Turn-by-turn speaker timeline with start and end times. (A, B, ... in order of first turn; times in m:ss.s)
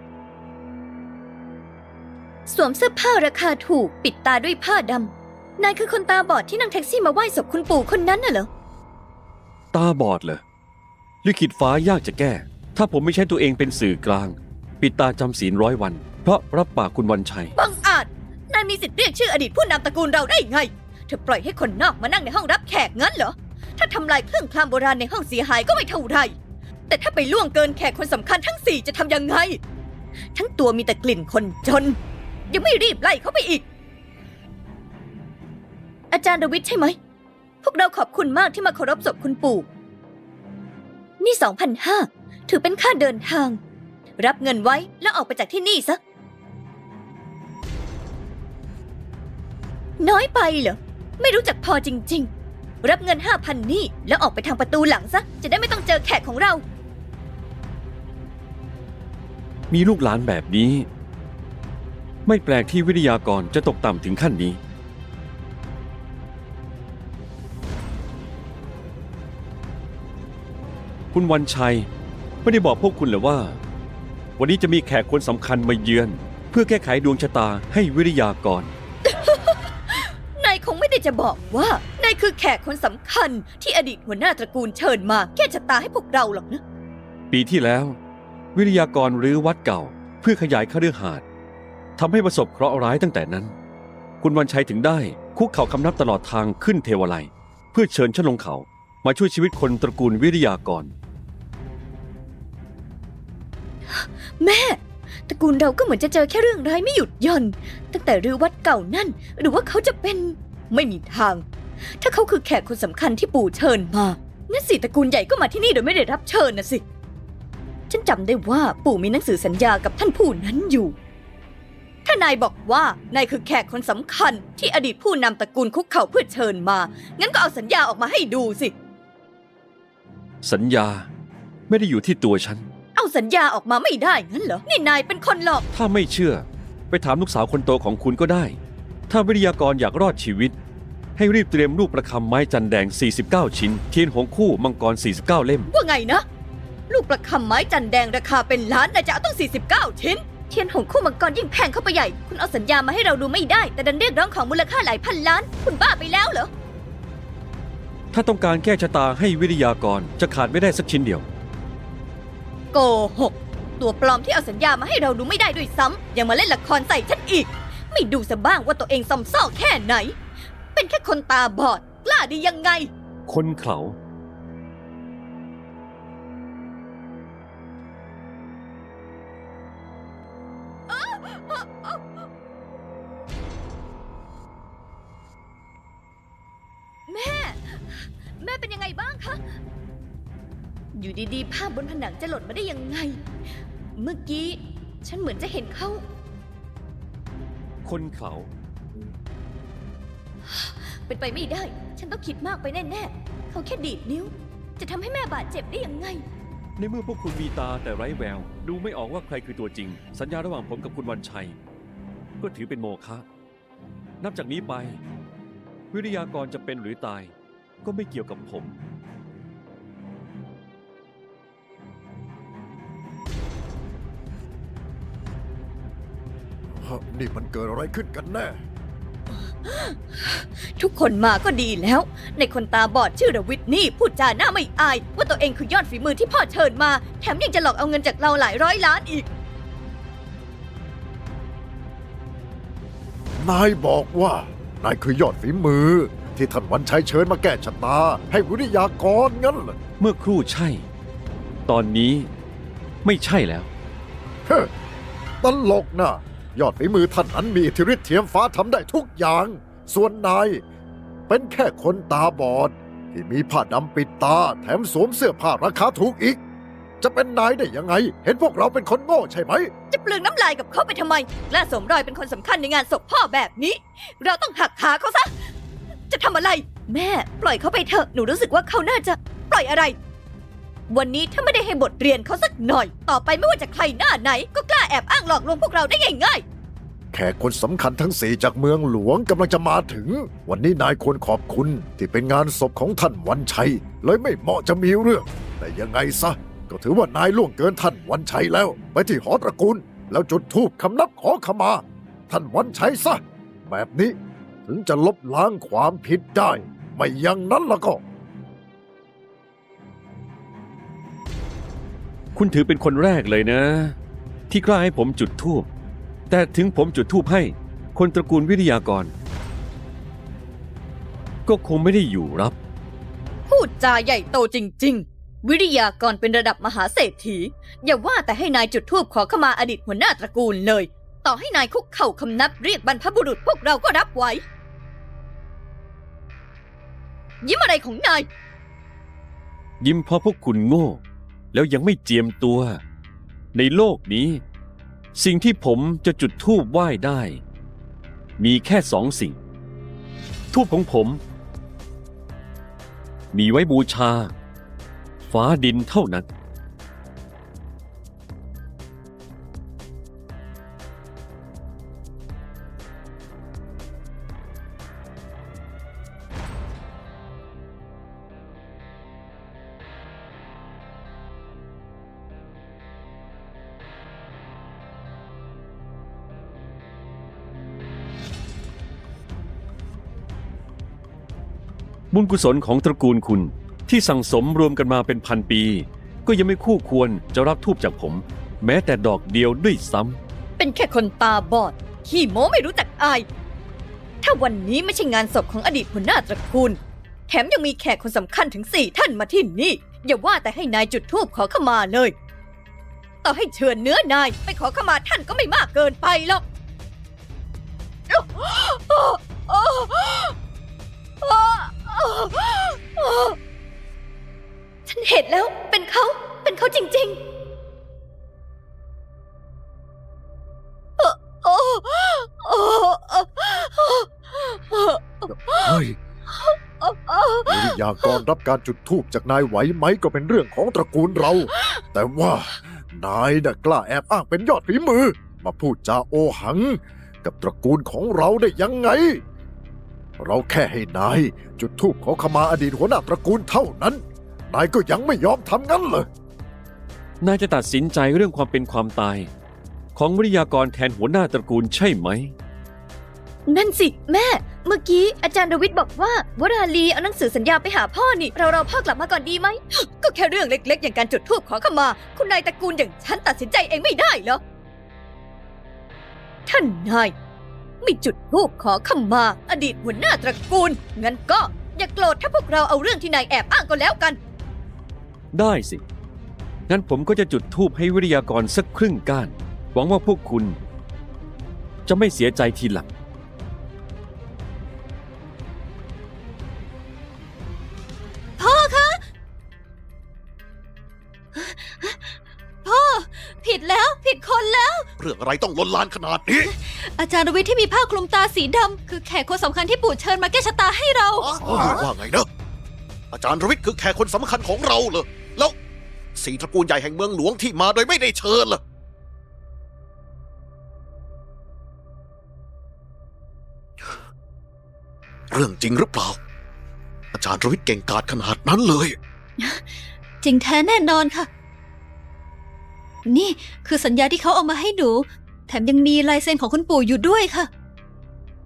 0:02.4-0:08.5 A
0:09.7-0:10.4 B
0:11.2-0:17.5 B
0:17.5-0:26.3 A
0:26.9-0:29.6 A
0:30.3-0:32.0 A
0:32.5-0:33.6 A
0:36.1-0:37.0 A
0:37.6-0:39.7 A
0:41.2-0:43.6 A
0:44.2-0:46.0 A
0:50.0-0:52.3 A
0:52.8-0:56.6 A
0:59.7-1:00.9 B
1:02.2-1:04.6 B
1:11.1-1:11.9 B
1:12.4-1:13.6 B
1:14.4-1:18.7 B
1:19.0-1:26.6 A
1:27.3-1:28.0 B
1:28.5-1:31.2 B
1:32.0-1:33.5 B
1:34.2-1:40.9 B
1:43.9-1:51.4 A
1:52.0-1:56.8 A
1:57.9-2:00.9 A
2:02.0-2:08.7 A
2:10.4-2:11.1 B
2:11.7-2:12.6 B
2:12.9-2:15.6 A
2:15.7-2:20.5 B
2:21.2-2:25.7 B
2:25.7-2:26.2 A
2:26.9-2:36.5 A
2:38.1-2:41.2 B
2:42.7-2:50.1 A
2:50.7-2:52.9 A
2:53.3-2:54.0 B
3:00.9-3:02.2 A
3:07.1-3:09.4 A
3:10.9-3:13.2 A
3:14.0-3:16.0 A
3:17.8-3:18.5 B
3:20.5-3:26.2 A
3:26.8-3:31.6 B
3:32.4-3:33.2 B
3:34.2-3:35.0 B
3:35.9-3:38.8 B
3:46.7-3:48.6 C
3:49.5-3:59.3 A
4:03.4-4:09.8 C
4:10.0-4:10.9 B
4:11.6-4:12.3 B
4:13.0-4:13.7 B
4:15.4-4:20.6 C
4:21.3-4:26.4 C
4:27.0-4:29.7 C
4:29.9-4:35.3 A
4:36.1-4:39.9 A
4:40.9-4:46.4 A
4:47.1-5:08.0 C
5:12.3-5:14.0 B
5:14.5-5:15.7 B
5:16.3-5:19.1 B
5:21.4-5:22.5 B
5:23.5-5:34.4 A
5:37.4-5:38.3 A
5:39.8-5:41.0 B
5:41.5-5:42.8 B
5:43.5-5:44.4 B
5:45.1-5:47.4 B
5:48.4-5:49.4 B
5:50.5-5:51.2 B
5:53.3-5:54.3 B
5:55.2-5:56.3 B
6:22.1-6:30.2 B
6:30.6-6:33.2 A
6:34.2-6:42.1 A
6:43.2-6:46.4 A
6:48.1-6:50.3 A
6:51.2-6:53.4 A
6:54.8-6:57.2 A
7:01.0-7:05.8 A
7:05.5-7:06.0 C
7:06.3-7:08.2 A
7:07.5-7:19.2 C
7:11.5-7:11.8 A
7:20.2-7:26.1 C
7:27.2-7:29.3 B
7:29.9-7:32.3 B
7:33.5-7:44.4 A
7:46.5-7:47.1 A
7:47.8-7:54.2 A
7:55.3-7:55.8 B
7:56.7-8:00.6 B
8:01.8-8:02.9 B
8:08.4-8:09.0 D
8:11.3-8:14.9 D
8:15.0-8:16.5 E
8:16.4-8:21.8 D
8:21.2-8:22.3 E
8:23.1-8:25.6 E
8:26.2-8:28.6 E
8:35.3-8:36.2 E
8:37.1-8:39.0 E
8:39.4-8:41.3 D
8:43.0-8:47.5 D